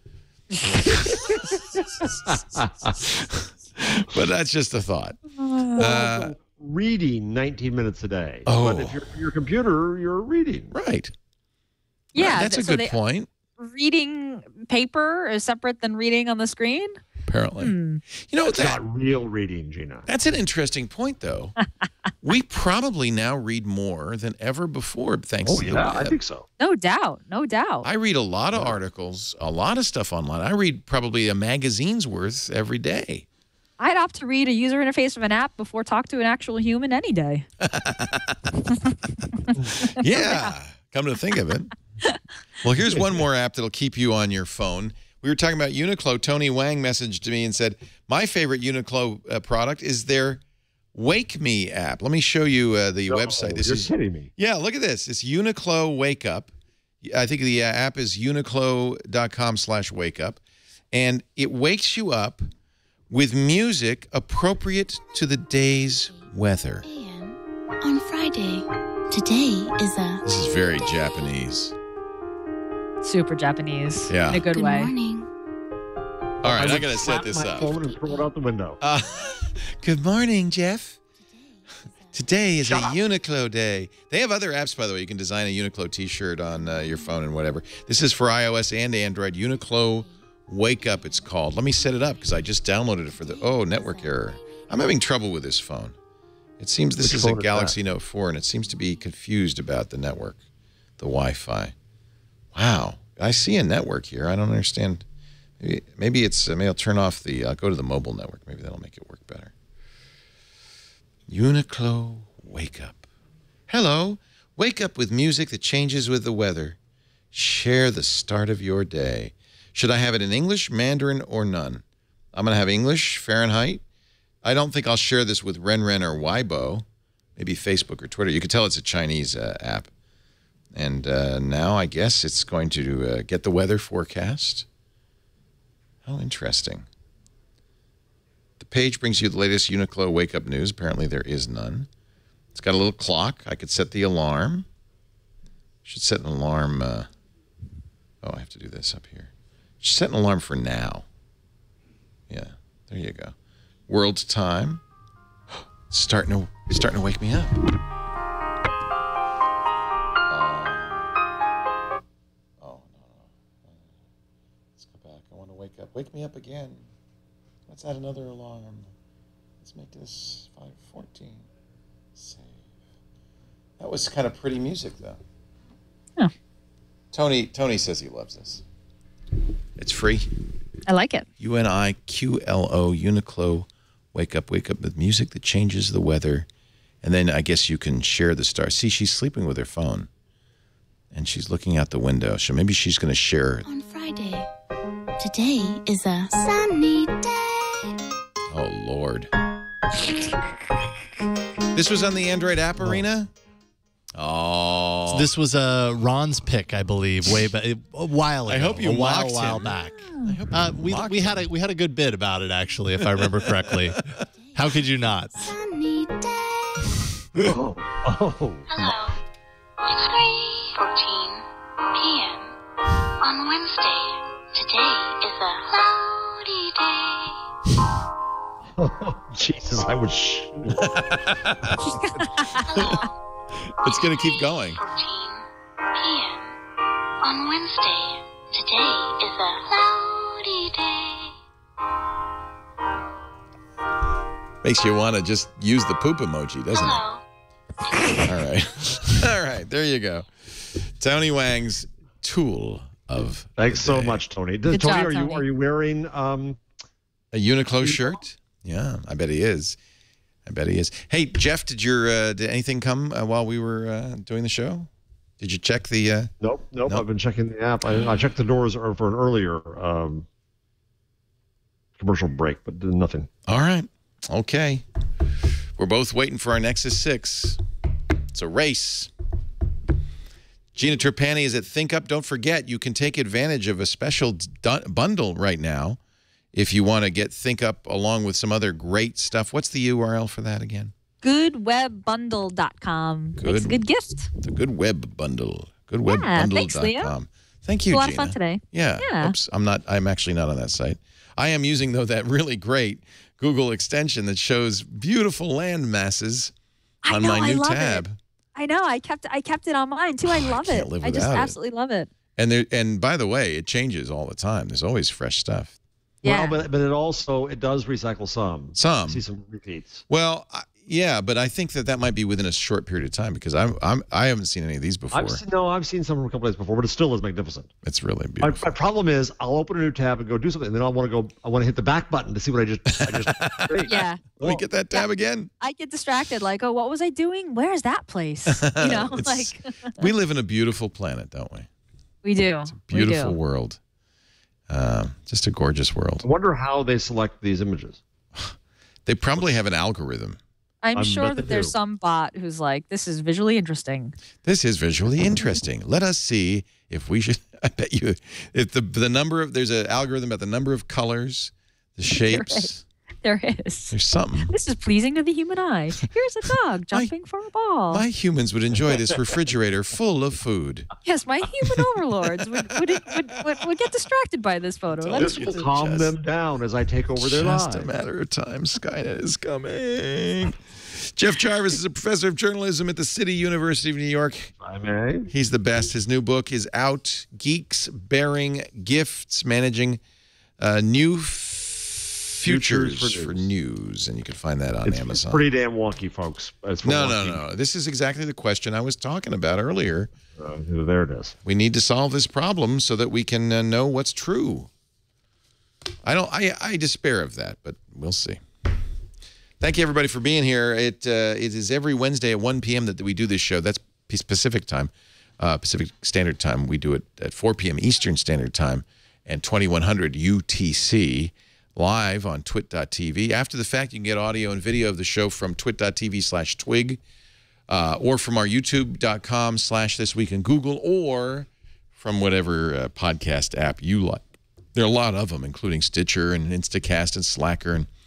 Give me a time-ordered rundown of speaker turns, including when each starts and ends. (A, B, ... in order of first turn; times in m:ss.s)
0:00.8-0:02.3 A
0:00.9-0:03.0 B
0:03.0-0:05.2 A
0:05.4-0:05.8 C
0:05.8-0:06.3 A
0:05.8-0:10.7 B
0:08.4-0:09.0 A
0:10.7-0:11.1 A
0:12.1-0:13.0 C
0:12.1-0:13.3 A
0:13.6-0:17.0 C
0:17.2-0:18.8 A
0:17.6-0:18.0 C
0:18.4-0:20.1 B
0:20.1-0:21.6 A
0:22.2-0:26.2 A
0:25.4-0:26.4 B
0:26.6-0:27.9 C
0:27.8-0:33.2 A
0:33.8-0:37.4 C
0:37.6-0:38.6 A
0:39.7-0:41.7 A
0:39.9-0:40.6 C
0:42.6-0:50.4 A
0:50.9-0:56.5 A
0:53.1-0:54.3 B
0:57.0-1:00.4 A
1:00.9-1:02.4 A
1:03.1-1:06.8 A
1:06.8-1:10.2 D
1:10.2-1:11.7 A
1:13.0-1:14.9 C
1:14.1-1:14.4 A
1:14.5-1:15.3 D
1:16.4-1:17.8 A
1:16.4-1:18.8 B
1:18.8-1:21.0 A
1:22.1-1:35.9 A
1:22.6-1:23.0 B
1:36.6-1:40.4 A
1:37.0-1:37.8 B
1:41.0-1:41.7 A
1:42.5-1:45.0 A
1:45.6-1:49.5 A
1:51.3-1:53.0 A
1:53.7-1:56.8 A
1:57.3-2:01.8 A
2:02.3-2:03.8 A
2:04.4-2:06.8 A
2:07.4-2:09.9 A
2:10.7-2:14.6 A
2:16.0-2:16.8 A
2:18.6-2:21.9 A
2:22.5-2:24.7 A
2:25.8-2:27.1 A
2:28.2-2:31.0 A
2:32.3-2:33.3 A
2:33.9-2:34.8 A
2:35.9-2:37.7 A
2:40.3-2:41.1 A
2:42.6-2:43.8 A
2:44.8-2:46.8 A
2:47.7-2:48.9 A
2:49.6-2:51.4 A
2:52.2-2:52.6 A
2:53.8-2:55.2 A
2:57.1-2:58.6 A
2:59.8-3:00.3 A
3:00.9-3:01.3 C
3:01.4-3:06.4 A
3:07.0-3:10.1 A
3:11.1-3:13.6 A
3:13.6-3:14.5 D
3:15.2-3:17.8 D
3:18.5-3:19.3 A
3:20.0-3:20.2 A
3:21.7-3:23.3 A
3:24.2-3:25.3 A
3:25.1-3:35.5 E
3:28.5-3:31.5 A
3:33.0-3:34.0 A
3:34.5-3:36.9 D
3:37.4-3:38.7 B
3:38.7-3:39.2 D
3:39.8-3:42.5 D
3:43.2-3:47.4 D
3:48.8-3:50.9 B
3:50.8-3:52.0 A
3:52.0-3:52.6 C
3:52.5-3:53.2 D
3:52.7-3:53.0 A
3:53.6-3:54.8 A
3:53.8-3:56.5 D
3:57.2-4:01.3 D
4:04.6-4:07.0 A
4:06.7-4:07.2 D
4:07.9-4:08.2 D
4:08.2-4:14.2 A
4:13.6-4:16.6 B
4:14.7-4:15.4 C
4:17.3-4:19.8 A
4:17.8-4:18.2 B
4:20.4-4:24.9 A
4:25.4-4:26.3 A
4:26.4-4:30.2 B
4:32.0-4:33.3 B
4:33.5-4:34.8 A
4:35.8-4:37.6 A
4:38.3-4:39.1 A
4:40.7-4:46.0 A
4:46.5-4:50.9 A
4:51.2-4:54.3 C
4:53.4-4:53.8 A
4:54.4-5:06.5 A
4:56.0-4:57.1 C
4:57.9-4:59.3 C
5:07.0-5:12.1 C
5:07.1-5:08.2 A
5:10.2-5:11.5 A
5:12.4-5:15.7 A
5:16.2-5:16.6 C
5:16.2-5:20.0 B
5:18.7-5:19.2 A
5:20.1-5:25.4 A
5:25.1-5:27.7 B
5:27.8-5:28.7 A
5:28.4-5:34.6 B
5:32.9-5:35.5 A
5:33.8-5:34.2 C
5:35.6-5:40.1 C
5:38.5-5:41.7 A
5:42.2-5:43.3 C
5:42.7-5:43.8 A
5:44.7-5:46.2 A
5:46.2-5:48.0 B
5:48.4-5:50.4 A
5:50.8-5:54.1 C
5:50.9-5:51.7 B
5:54.4-6:02.8 A
6:02.1-6:02.7 C
6:03.2-6:08.0 C
6:03.9-6:04.5 A
6:07.9-6:10.9 A
6:11.0-6:15.3 C
6:14.9-6:16.1 A
6:15.2-6:17.9 B
6:17.2-6:24.5 A
6:24.6-6:25.3 B
6:25.3-6:30.0 A
6:30.6-6:35.4 A
6:32.4-6:33.5 B
6:34.8-6:37.4 B
6:36.8-6:40.1 A
6:40.4-6:41.4 B
6:41.4-6:44.7 A
6:46.0-6:48.4 A
6:49.6-7:07.0 A
7:07.7-7:17.9 A